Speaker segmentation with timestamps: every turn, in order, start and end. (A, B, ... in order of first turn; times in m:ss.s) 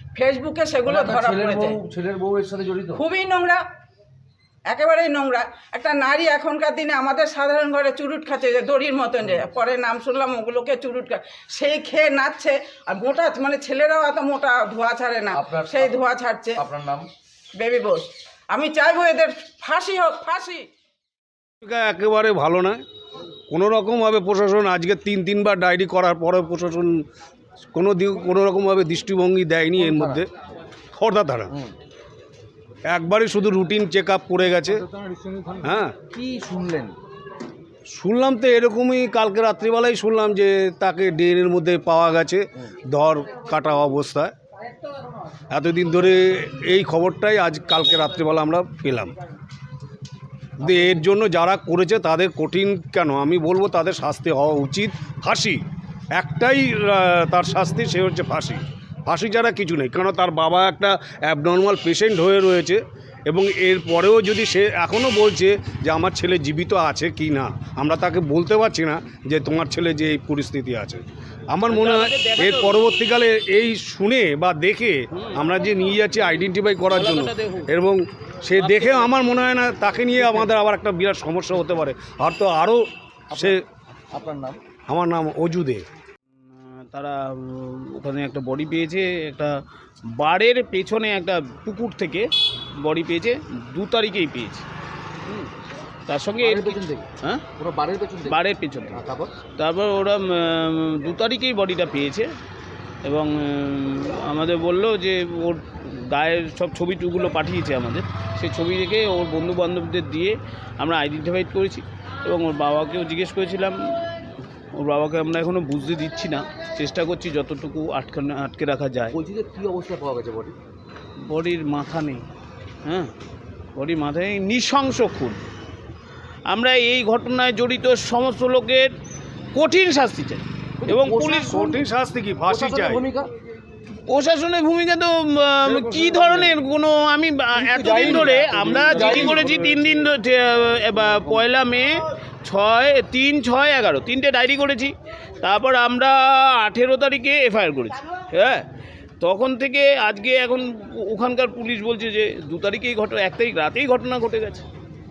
0:00.2-0:01.8 A
0:00.9-0:03.0 B
0:03.0-0:03.6 A
0:04.7-0:16.5 A
0:15.3-0:16.0 B
0:16.6-0:17.1 B
0:17.6-0:20.7 A
0:21.6-0:22.8 C
0:23.5-0:27.0 C
0:27.7-0:30.3 C
0:29.8-0:30.2 B
0:30.9-0:31.5 C
0:32.9-0:34.9 C
0:35.6-0:36.0 C
0:36.1-0:37.0 B
0:37.9-0:44.3 C
0:45.5-0:49.1 C
0:50.6-0:55.6 C
0:56.1-1:23.6 C
1:11.7-1:12.8 D
1:15.1-1:15.4 D
1:16.9-1:17.7 D
1:18.6-1:19.2 D
1:20.2-1:20.5 B
1:23.3-1:23.6 B
1:24.1-1:24.6 B
1:24.9-1:25.9 C
1:26.5-1:29.6 D
1:30.2-1:32.3 D
1:32.8-1:34.7 D
1:36.1-1:37.4 D
1:36.4-1:39.4 B
1:38.3-1:39.0 D
1:39.6-1:42.3 D
1:43.0-1:53.8 D
1:54.8-1:59.2 D
1:59.1-2:00.6 B
2:01.3-2:02.2 D
2:02.8-2:03.1 D
2:03.8-2:05.4 D
2:06.5-2:08.9 D
2:09.6-2:11.6 D
2:10.8-2:11.8 B
2:11.3-2:13.0 C
2:12.5-2:13.3 B
2:14.1-2:28.7 D
2:15.6-2:16.6 C
2:17.7-2:20.0 C
2:18.0-2:19.5 B
2:21.1-2:21.4 B
2:29.2-2:34.7 D